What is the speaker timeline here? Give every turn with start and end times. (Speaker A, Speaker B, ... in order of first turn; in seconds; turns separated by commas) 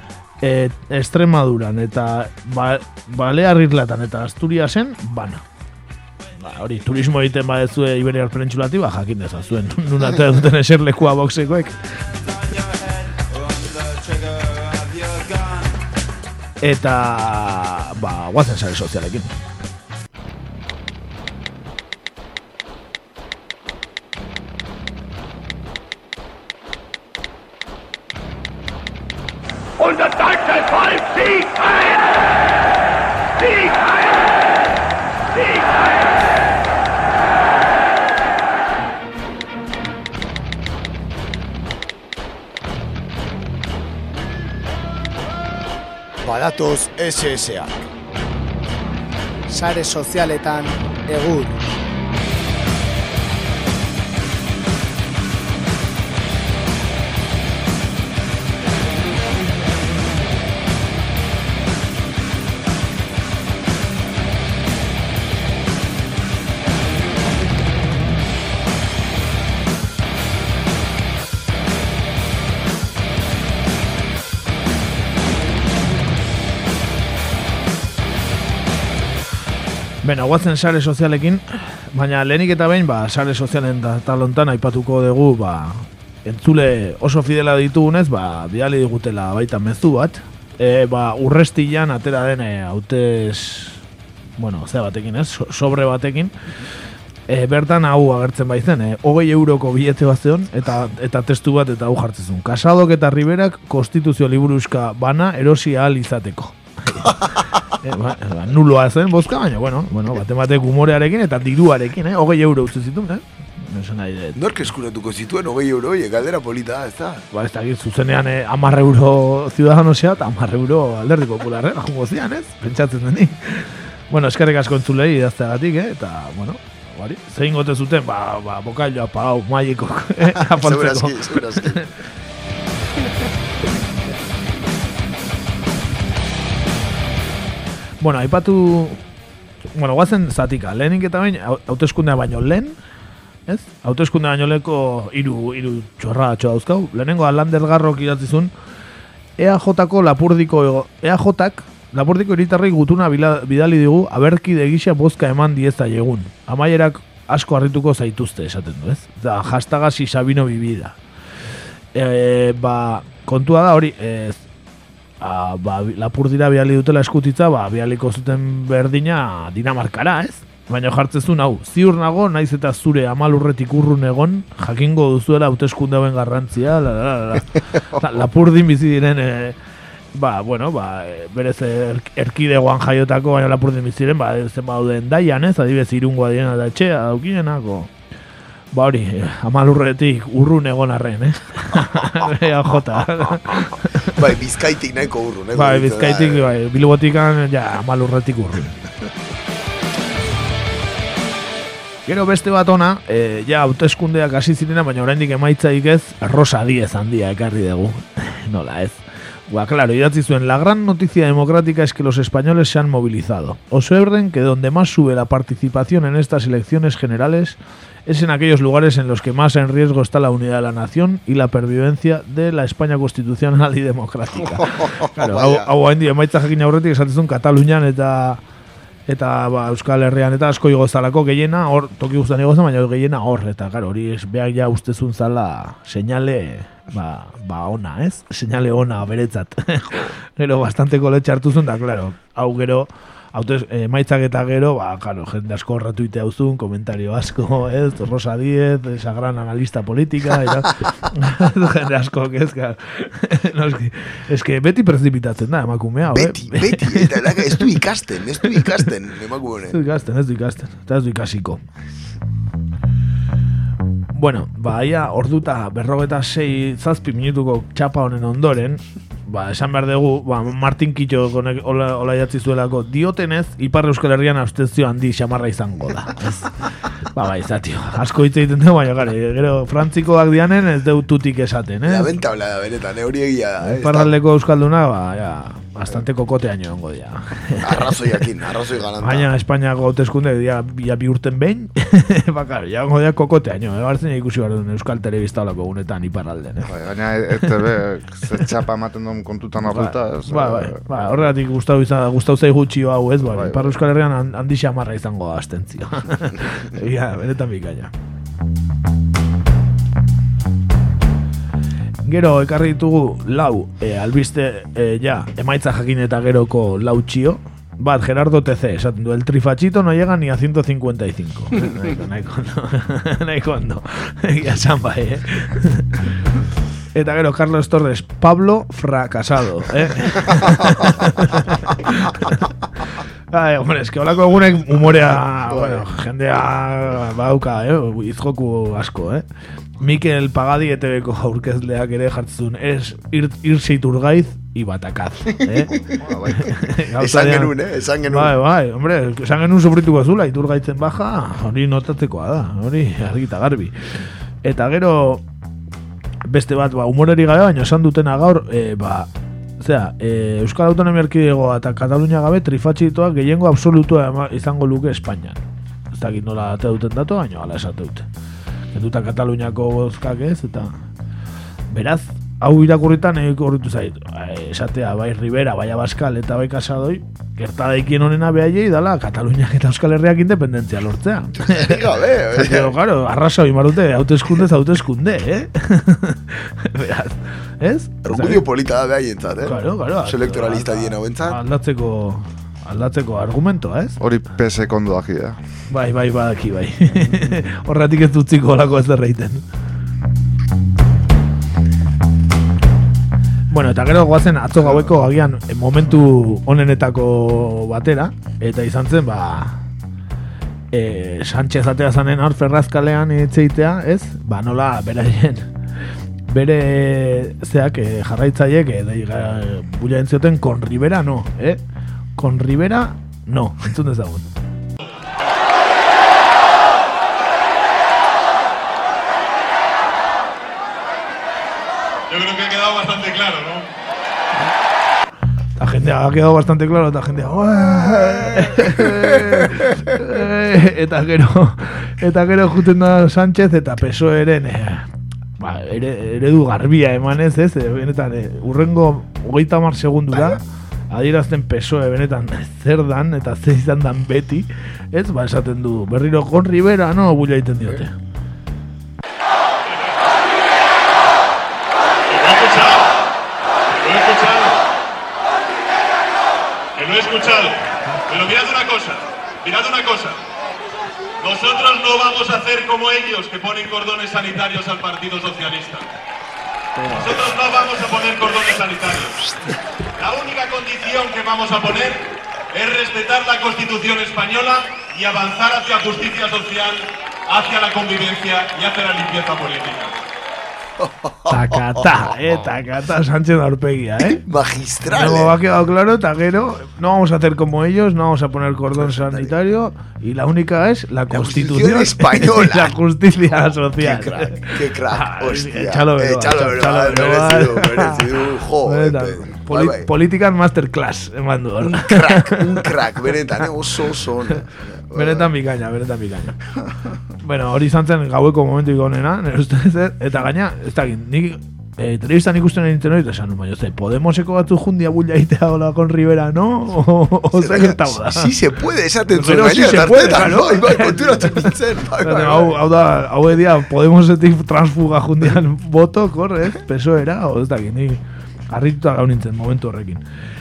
Speaker A: 0.4-5.4, Speaker A: 6.4-11.8, Speaker A: 16.6-19.3, Speaker B: 46.3-47.7, Speaker B: 49.5-51.5, Speaker A: 80.0-93.8, Speaker A: 94.4-96.3, Speaker A: 97.3-114.4, Speaker C: 114.4-117.2, Speaker A: 117.3-131.9, Speaker C: 130.2-131.8, Speaker A: 138.0-139.0, Speaker A: 139.8-142.8, Speaker A: 143.5-148.5, Speaker A: 149.4-161.0, Speaker A: 161.9-164.4, Speaker A: 165.2-179.6, Speaker A: 180.1-187.9, Speaker A: 188.7-194.2, Speaker C: 194.2-196.5, Speaker A: 195.5-198.8, Speaker A: 202.1-228.4, Speaker C: 224.6-225.7, Speaker A: 229.1-257.8, Speaker C: 256.1-259.8, Speaker A: 259.7-261.6, Speaker A: 264.1-282.1, Speaker C: 281.9-284.1, Speaker A: 283.6-288.0, Speaker C: 287.6-289.3, Speaker A: 289.0-296.7, Speaker D: 296.7-301.2, Speaker A: 299.6-307.9, Speaker D: 303.3-303.7, Speaker A: 312.0-326.1, Speaker A: 326.9-332.5, Speaker A: 333.3-339.2, Speaker C: 335.5-335.8, Speaker A: 339.8-345.8, Speaker C: 345.4-346.4, Speaker A: 346.3-347.5, Speaker C: 347.0-348.4, Speaker A: 348.1-353.7, Speaker A: 354.4-355.2, Speaker A: 356.3-365.4, Speaker A: 365.9-368.1, Speaker A: 368.7-370.8, Speaker A: 371.7-388.4, Speaker C: 381.4-382.7, Speaker C: 388.1-391.4, Speaker A: 389.4-394.0, Speaker D: 394.0-395.4, Speaker A: 395.7-399.4, Speaker A: 403.5-409.6, Speaker A: 410.7-415.5, Speaker A: 416.3-421.6, Speaker A: 422.2-424.3, Speaker E: 432.1-433.6, Speaker A: 435.6-444.9, Speaker C: 438.0-439.6, Speaker A: 445.4-457.9, Speaker E: 462.1-462.8, Speaker E: 463.8-464.5, Speaker E: 466.8-467.6, Speaker E: 468.1-468.9, Speaker E: 469.4-470.1, Speaker E: 471.2-475.8, Speaker E: 477.0-479.1, Speaker E: 480.0-481.9, Speaker E: 482.6-486.8, Speaker E: 487.3-489.9, Speaker C: 490.8-491.5, Speaker A: 491.3-494.2, Speaker C: 494.0-495.3, Speaker A: 494.9-508.1, Speaker C: 498.9-499.3, Speaker C: 501.1-502.7, Speaker C: 503.8-509.9, Speaker A: 508.6-512.7, Speaker C: 511.6-515.3, Speaker A: 514.9-516.4, Speaker A: 517.2-528.3, Speaker C: 527.4-532.6, Speaker A: 529.1-540.0